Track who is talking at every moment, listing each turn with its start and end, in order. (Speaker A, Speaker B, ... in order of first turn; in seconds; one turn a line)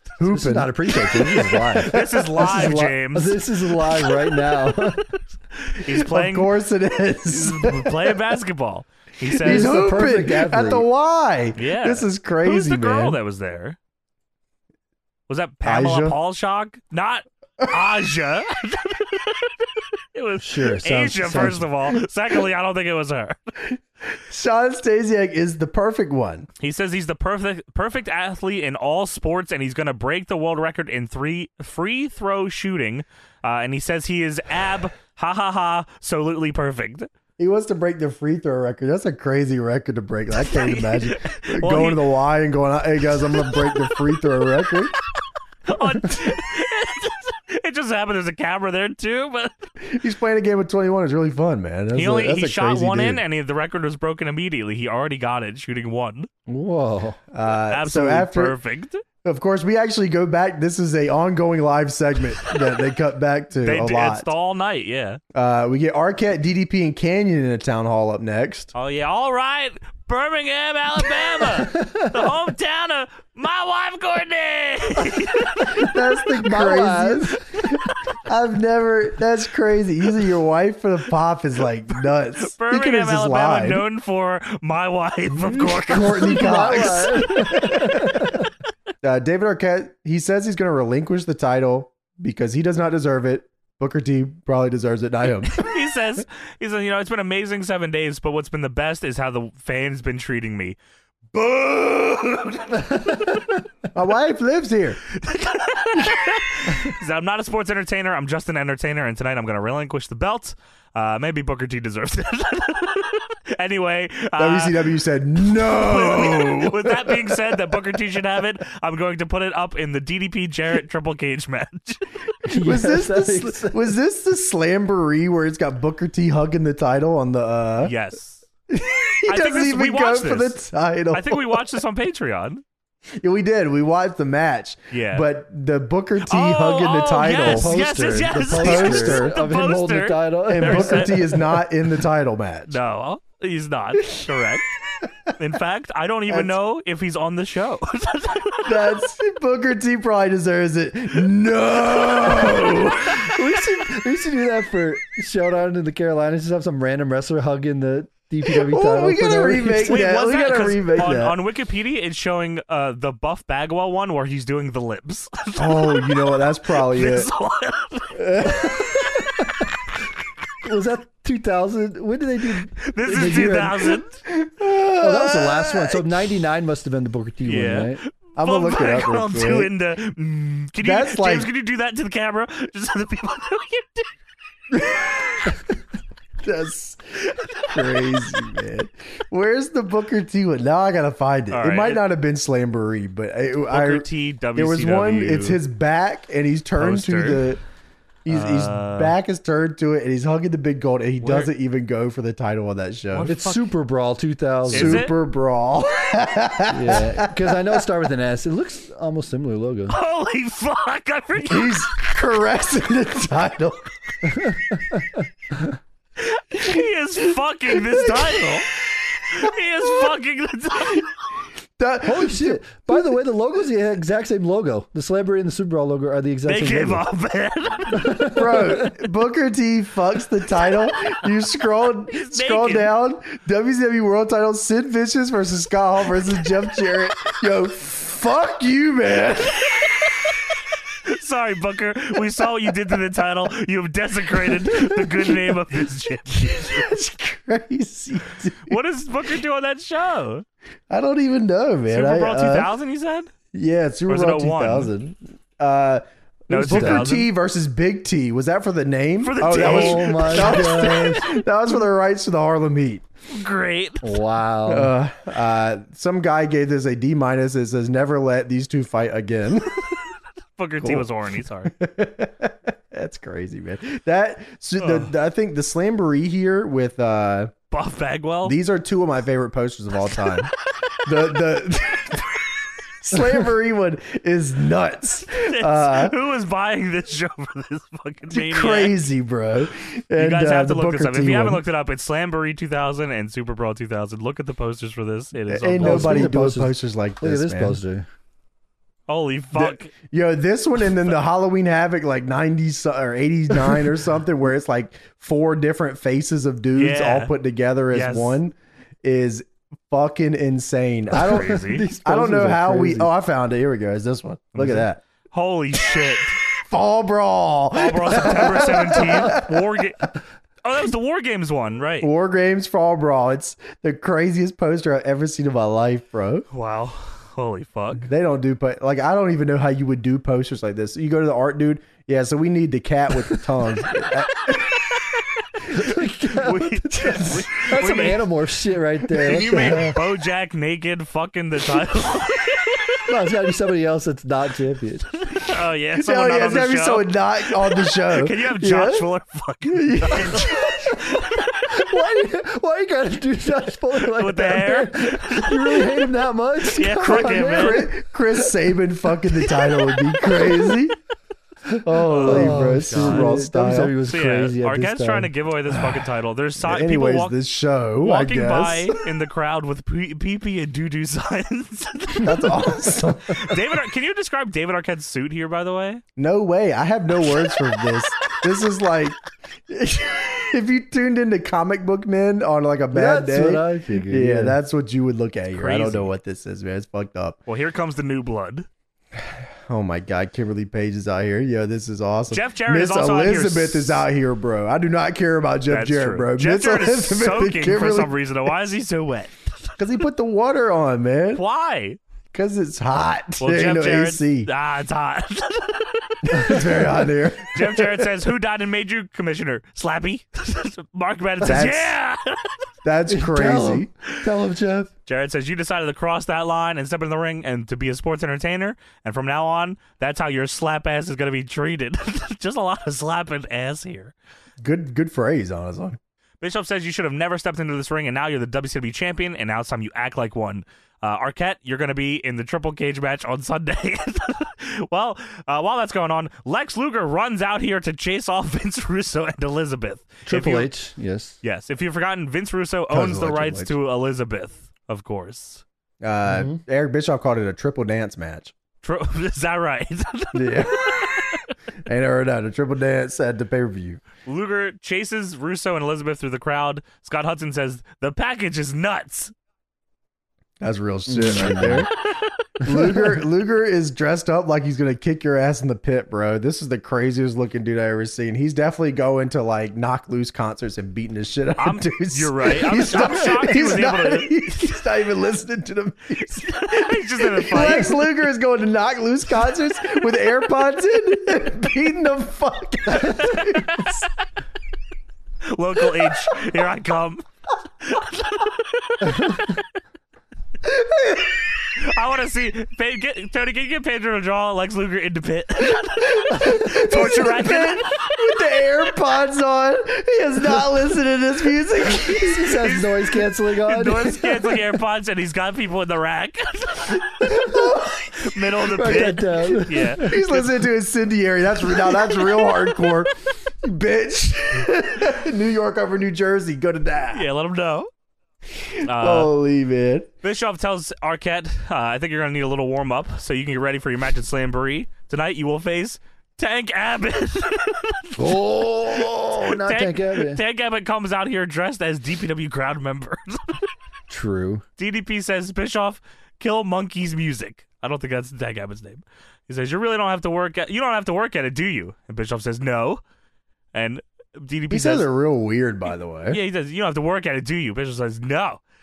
Speaker A: 0.2-2.9
Speaker B: 0.2-5.1
Speaker C: 1.8-3.4
Speaker C: 5.6-6.5
Speaker A: 5.9-8.2
Speaker C: 7.3-9.8
Speaker B: 9.4-10.9
Speaker A: 9.4-13.2
Speaker C: 11.6-13.8
Speaker C: 15.3-23.4
Speaker A: 15.6-16.2
Speaker B: 20.4-21.7
Speaker A: 24.3-26.5
Speaker C: 26.6-37.1
Speaker A: 37.4-44.9
Speaker C: 40.4-42.0
Speaker C: 43.4-43.8
Speaker C: 45.7-49.7
Speaker A: 49.8-53.2
Speaker C: 52.0-56.3
Speaker B: 56.5-57.2
Speaker A: 57.3-58.6
Speaker C: 57.7-59.0
Speaker A: 59.2-64.3
Speaker C: 63.7-65.2
Speaker A: 65.3-68.7
Speaker C: 68.7-75.9
Speaker B: 71.4-72.2
Speaker A: 75.7-83.8
Speaker B: 76.4-77.7
Speaker C: 82.4-87.6
Speaker A: 85.5-88.4
Speaker B: 85.6-88.5
Speaker A: 89.0-95.7
Speaker C: 95.4-100.8
Speaker C: 101.3-103.5
Speaker A: 103.9-105.0
Speaker C: 105.1-114.9
Speaker A: 114.4-117.8
Speaker C: 115.4-122.0
Speaker B: 122.5-123.9
Speaker A: 122.6-127.9
Speaker C: 127.8-128.4
Speaker A: 128.7-131.6
Speaker C: 129.3-130.6
Speaker C: 131.1-132.6
Speaker A: 133.2-137.8
Speaker C: 134.9-135.2
Speaker C: 136.3-141.3
Speaker B: 137.4-141.6
Speaker A: 138.6-139.4
Speaker A: 140.5-142.8
Speaker C: 142.7-144.7
Speaker C: 145.4-148.9
Speaker A: 146.3-146.6
Speaker A: 148.7-153.3
Speaker B: 152.9-160.0
Speaker A: 158.6-161.4
Speaker C: 159.8-166.1
Speaker A: 165.6-167.3
Speaker C: 166.8-169.6
Speaker A: 168.2-168.9
Speaker B: 168.9-169.7
Speaker B: 170.6-174.0
Speaker C: 172.8-174.2
Speaker A: 174.3-176.0
Speaker B: 174.9-178.0
Speaker C: 177.5-184.1
Speaker A: 178.4-179.7
Speaker A: 180.8-181.5
Speaker A: 184.7-185.4
Speaker A: 186.4-187.0
Speaker C: 187.6-188.0
Speaker A: 187.6-197.6
Speaker C: 191.5-192.0
Speaker C: 193.7-195.6
Speaker C: 196.8-197.5
Speaker A: 198.3-203.3
Speaker C: 198.3-199.2
Speaker C: 201.2-201.5
Speaker C: 203.1-203.7
Speaker B: 203.3-205.1
Speaker A: 204.7-207.5
Speaker C: 204.7-205.1
Speaker B: 206.7-210.0
Speaker C: 209.9-212.3
Speaker A: 211.4-213.9
Speaker B: 214.2-215.8
Speaker C: 216.2-221.1
Speaker A: 217.9-218.4
Speaker A: 221.8-223.1
Speaker B: 222.1-227.0
Speaker C: 226.5-228.3
Speaker B: 227.9-228.9
Speaker A: 228.3-239.9
Speaker C: 232.1-232.9
Speaker C: 239.7-240.4
Speaker C: 241.1-247.0
Speaker A: 244.7-245.6
Speaker A: 246.3-248.8
Speaker C: 248.7-250.4
Speaker A: 250.9-252.7
Speaker C: 251.9-253.3
Speaker A: 253.5-263.0
Speaker C: 254.1-254.9
Speaker C: 256.5-257.3
Speaker B: 256.6-257.1
Speaker C: 259.2-261.2
Speaker B: 259.6-261.2
Speaker C: 263.3-264.2
Speaker B: 264.0-264.9
Speaker A: 264.7-269.8
Speaker C: 270.6-271.7
Speaker A: 270.8-271.1
Speaker A: 271.7-277.5
Speaker C: 274.8-275.1
Speaker C: 277.7-278.6
Speaker A: 278.4-280.5
Speaker A: 281.1-282.3
Speaker A: 283.0-286.1
Speaker C: 285.2-289.0
Speaker A: 288.3-291.6
Speaker C: 290.2-296.3
Speaker A: 295.5-297.8
Speaker B: 295.8-298.1
Speaker C: 299.1-299.9
Speaker A: 299.6-315.0
Speaker C: 300.9-301.2
Speaker C: 306.8-307.4
Speaker C: 307.9-308.4
Speaker B: 311.1-313.1
Speaker C: 311.3-311.9
Speaker B: 314.6-314.9
Speaker C: 315.3-316.4
Speaker A: 316.7-319.6
Speaker C: 317.8-320.1
Speaker C: 320.6-322.1
Speaker A: 322.0-326.5
Speaker C: 326.5-328.1
Speaker A: 328.0-334.8
Speaker B: 335.7-340.0
Speaker C: 335.7-338.2
Speaker C: 339.1-343.0
Speaker A: 339.3-340.0
Speaker B: 343.1-345.1
Speaker C: 345.3-351.7
Speaker A: 346.0-349.1
Speaker A: 349.7-350.7
Speaker B: 351.7-357.9
Speaker C: 354.1-356.1
Speaker C: 356.6-357.9
Speaker A: 357.0-361.0
Speaker A: 361.8-363.9
Speaker C: 362.1-363.3
Speaker B: 362.2-365.3
Speaker C: 364.0-367.4
Speaker A: 366.6-368.9
Speaker C: 368.0-376.0
Speaker A: 372.2-373.6
Speaker A: 376.2-387.4
Speaker B: 382.9-384.6
Speaker C: 385.5-386.1
Speaker C: 387.5-388.7
Speaker A: 389.7-398.1
Speaker C: 392.3-394.1
Speaker C: 395.7-399.7
Speaker A: 399.8-401.4
Speaker C: 401.4-402.0
Speaker A: 402.3-404.5
Speaker C: 403.4-406.9
Speaker A: 406.2-408.1
Speaker C: 407.5-412.6
Speaker A: 411.4-412.0
Speaker A: 412.8-413.9
Speaker B: 413.1-414.9
Speaker C: 415.1-424.1
Speaker A: 424.6-426.0
Speaker C: 426.4-440.7
Speaker B: 440.3-441.4
Speaker C: 441.4-445.6
Speaker A: 442.9-443.8
Speaker A: 446.0-448.5
Speaker B: 446.3-446.6
Speaker C: 448.8-451.5
Speaker A: 450.3-451.1
Speaker A: 451.9-454.0
Speaker C: 454.3-459.3
Speaker A: 460.6-461.9
Speaker B: 461.1-461.9
Speaker C: 462.1-462.3
Speaker A: 462.6-483.9
Speaker B: 462.7-463.2
Speaker C: 471.6-474.3
Speaker C: 476.5-478.0
Speaker C: 482.9-484.2
Speaker C: 485.5-487.2
Speaker C: 487.8-489.6
Speaker B: 489.1-489.4
Speaker A: 490.6-491.4
Speaker C: 491.8-498.3
Speaker A: 496.0-502.5
Speaker B: 502.0-504.7
Speaker C: 502.3-510.6
Speaker B: 507.2-507.8
Speaker A: 507.3-508.3
Speaker B: 508.6-510.2
Speaker A: 510.0-517.3
Speaker C: 517.1-517.9
Speaker A: 518.6-520.1
Speaker C: 518.9-519.3
Speaker C: 520.2-533.6
Speaker B: 528.2-530.4
Speaker B: 534.1-534.6
Speaker C: 534.8-543.0
Speaker C: 543.7-545.1
Speaker A: 544.7-546.4
Speaker C: 546.3-548.6